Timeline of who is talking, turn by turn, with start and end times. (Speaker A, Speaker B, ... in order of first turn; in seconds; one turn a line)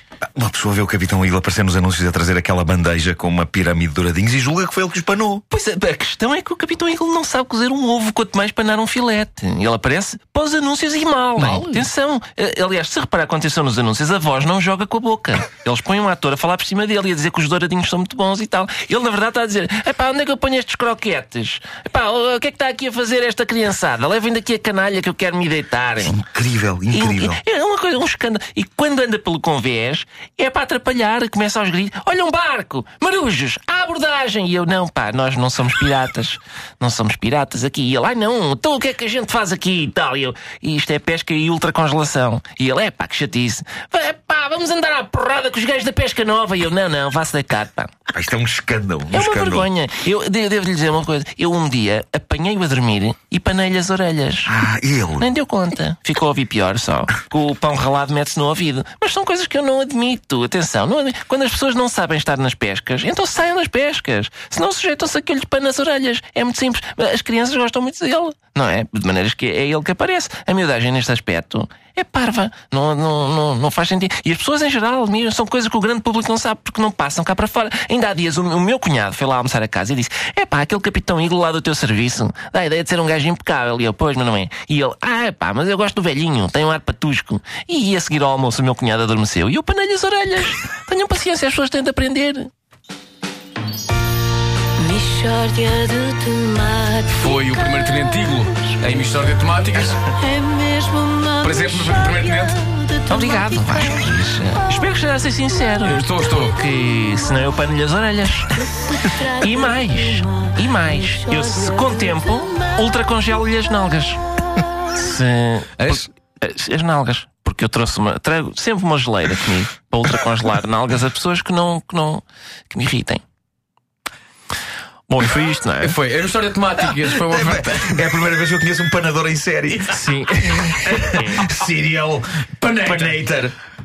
Speaker A: 0.3-5.4
Speaker B: 5.5-26.2
Speaker A: 26.0-27.4
Speaker B: 26.9-47.9
Speaker A: 48.1-49.7
Speaker B: 49.1-54.5
Speaker A: 54.5-55.3
Speaker B: 55.2-92.5
Speaker C: 94.8-98.1
Speaker D: 97.1-100.0
Speaker C: 100.2-104.1
Speaker D: 101.4-102.6
Speaker B: 103.1-114.3
Speaker D: 105.8-106.6
Speaker C: 108.8-112.6
Speaker B: 114.9-123.2
Speaker D: 115.8-116.1
Speaker B: 125.1-126.0
Speaker D: 125.8-128.0
Speaker A: 127.0-133.5
Speaker B: 129.9-131.4
Speaker D: 132.6-133.2